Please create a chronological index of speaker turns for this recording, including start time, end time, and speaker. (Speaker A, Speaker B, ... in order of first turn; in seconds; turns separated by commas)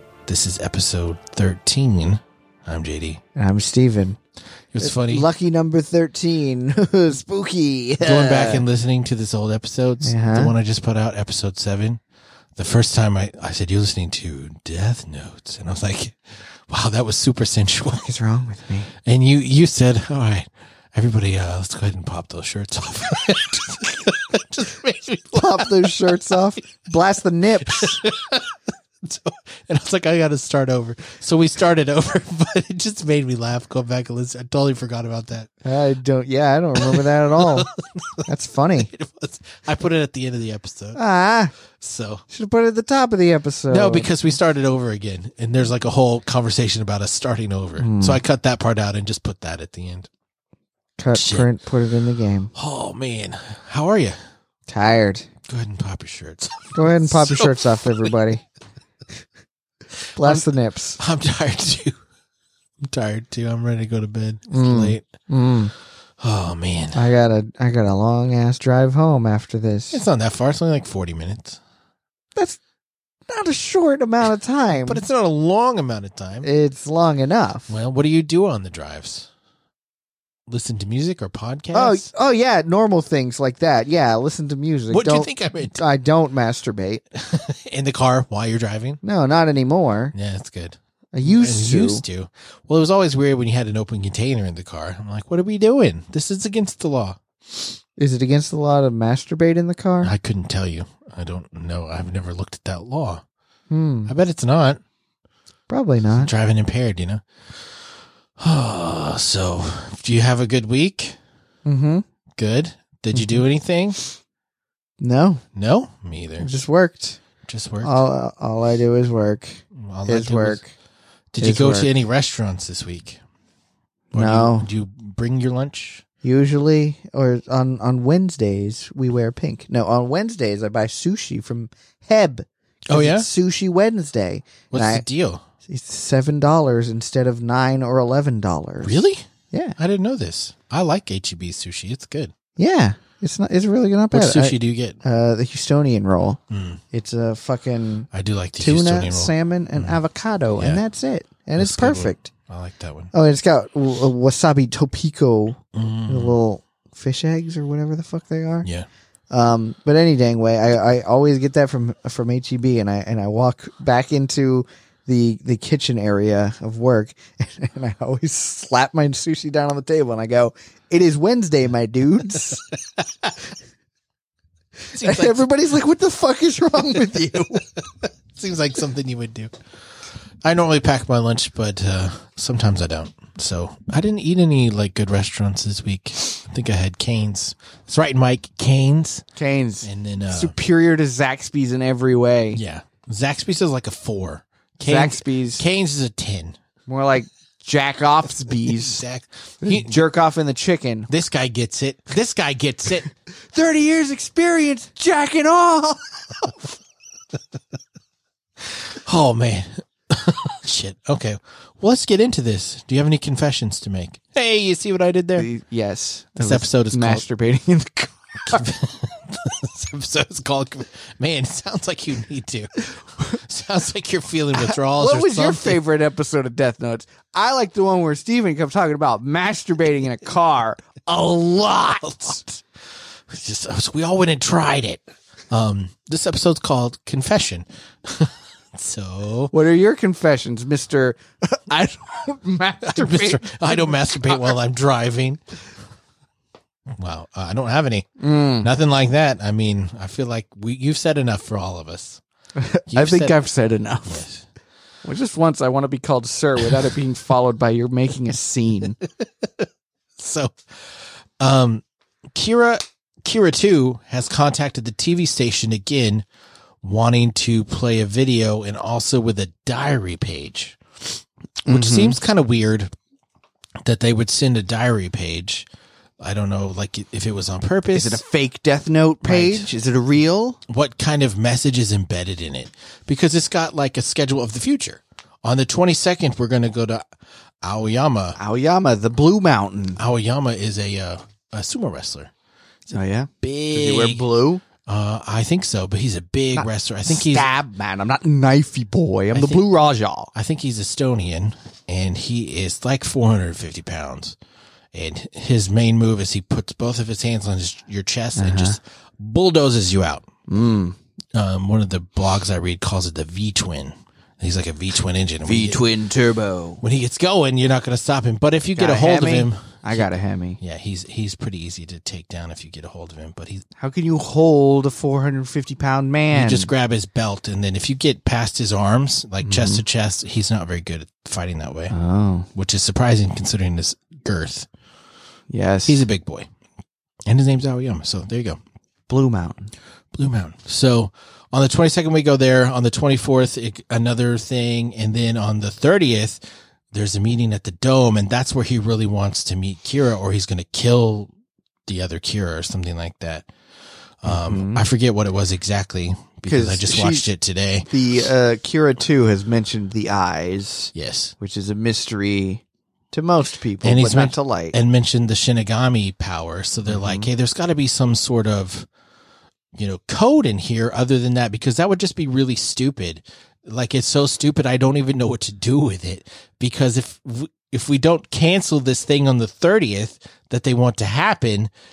Speaker A: 0.2-3.2, Speaker B: 3.4-4.2, Speaker A: 4.7-5.3, Speaker B: 4.8-8.6, Speaker A: 8.0-12.0, Speaker B: 10.0-10.5, Speaker A: 12.6-18.1, Speaker B: 17.9-18.9, Speaker A: 19.0-26.4, Speaker B: 25.3-28.0, Speaker A: 27.8-35.5, Speaker B: 35.6-37.7, Speaker A: 36.8-38.3, Speaker B: 38.3-38.9, Speaker A: 38.8-41.0, Speaker B: 40.9-41.5, Speaker A: 41.8-42.2, Speaker B: 42.3-44.1, Speaker A: 43.7-50.1, Speaker B: 47.8-48.2, Speaker B: 51.0-52.5, Speaker A: 51.1-51.5, Speaker A: 52.5-54.2, Speaker B: 54.7-55.3, Speaker A: 55.5-58.1, Speaker B: 56.7-58.4, Speaker B: 60.1-61.0, Speaker A: 60.2-60.5, Speaker A: 61.0-61.9, Speaker A: 62.8-65.0, Speaker B: 64.5-65.7, Speaker A: 66.2-67.0, Speaker B: 66.9-70.0, Speaker A: 69.9-71.6, Speaker B: 73.3-75.0, Speaker A: 74.8-76.5, Speaker B: 76.4-77.7, Speaker A: 77.7-79.3, Speaker A: 80.5-82.1, Speaker B: 81.7-87.0, Speaker A: 84.9-85.8, Speaker A: 87.1-89.0, Speaker B: 89.0-90.1, Speaker A: 90.1-97.7, Speaker B: 91.1-92.0, Speaker B: 98.0-100.1, Speaker A: 100.0-103.2, Speaker B: 103.7-104.1, Speaker A: 104.1-104.8, Speaker B: 105.7-106.3, Speaker A: 106.2-107.6, Speaker A: 108.4-111.2, Speaker B: 111.6-112.0, Speaker A: 112.4-114.0, Speaker B: 113.1-113.4, Speaker B: 115.0-115.4, Speaker A: 115.5-116.5, Speaker B: 116.4-117.2, Speaker A: 117.5-118.0, Speaker B: 117.8-120.7, Speaker A: 119.7-120.6, Speaker A: 121.3-123.2, Speaker B: 121.4-121.9, Speaker B: 124.1-124.7, Speaker A: 124.1-126.0, Speaker B: 126.2-135.1, Speaker A: 132.9-133.3, Speaker A: 134.7-135.4, Speaker B: 135.7-139.8, Speaker A: 138.8-139.2, Speaker A: 139.8-142.3, Speaker B: 142.6-146.4, Speaker A: 144.1-145.0, Speaker A: 146.5-146.8, Speaker B: 146.9-148.1, Speaker A: 148.1-149.9, Speaker B: 148.6-152.3, Speaker A: 151.6-153.1, Speaker B: 153.1-158.7, Speaker A: 155.7-156.3, Speaker B: 159.3-172.6, Speaker B: 174.9-177.7, Speaker A: 174.9-175.4, Speaker A: 178.3-179.5, Speaker A: 180.4-189.3, Speaker B: 189.3-192.6, Speaker A: 189.8-190.5, Speaker A: 192.5-196.6, Speaker B: 194.8-195.6, Speaker B: 196.9-199.0, Speaker A: 198.6-200.0, Speaker B: 199.6-201.1, Speaker A: 201.1-203.1, Speaker B: 203.5-206.7, Speaker A: 208.7-215.5, Speaker B: 215.3-218.7, Speaker A: 216.4-217.2, Speaker A: 218.5-225.8, Speaker B: 224.5-232.6, Speaker A: 232.0-232.4, Speaker A: 233.3-239.5, Speaker B: 239.5-244.5, Speaker A: 242.8-245.4, Speaker A: 246.9-252.2, Speaker B: 248.2-248.7, Speaker B: 252.6-254.3, Speaker A: 252.9-253.4, Speaker A: 254.1-254.4, Speaker B: 255.0-259.0, Speaker A: 260.2-266.2, Speaker A: 266.8-272.9, Speaker B: 271.6-272.2, Speaker A: 273.8-275.7, Speaker A: 276.2-278.2, Speaker B: 277.9-280.6, Speaker A: 279.2-279.7, Speaker A: 280.7-287.0, Speaker A: 287.6-288.4, Speaker B: 288.4-290.0, Speaker A: 290.0-292.3, Speaker B: 292.9-294.6, Speaker A: 293.4-294.2, Speaker A: 294.8-297.5, Speaker B: 296.5-300.3, Speaker A: 299.3-299.6, Speaker A: 300.3-304.4, Speaker A: 304.9-310.3, Speaker B: 308.3-308.8, Speaker B: 310.5-311.0, Speaker A: 311.3-315.8, Speaker B: 315.4-316.8, Speaker A: 316.8-320.1, Speaker B: 318.8-320.6, Speaker A: 320.6-323.6, Speaker B: 323.8-326.7, Speaker A: 326.3-331.9, Speaker B: 329.4-329.8, Speaker B: 331.9-332.5, Speaker A: 332.5-334.7, Speaker B: 335.5-336.1, Speaker A: 335.9-336.5, Speaker A: 337.3-338.6, Speaker B: 339.1-339.7, Speaker A: 340.1-346.4, Speaker A: 346.9-351.3, Speaker A: 351.9-353.5, Speaker A: 354.2-357.9, Speaker B: 354.2-354.8, Speaker B: 356.4-357.3, Speaker B: 357.9-364.8, Speaker A: 360.9-361.3, Speaker A: 363.8-368.9, Speaker B: 366.8-367.3, Speaker A: 369.7-381.7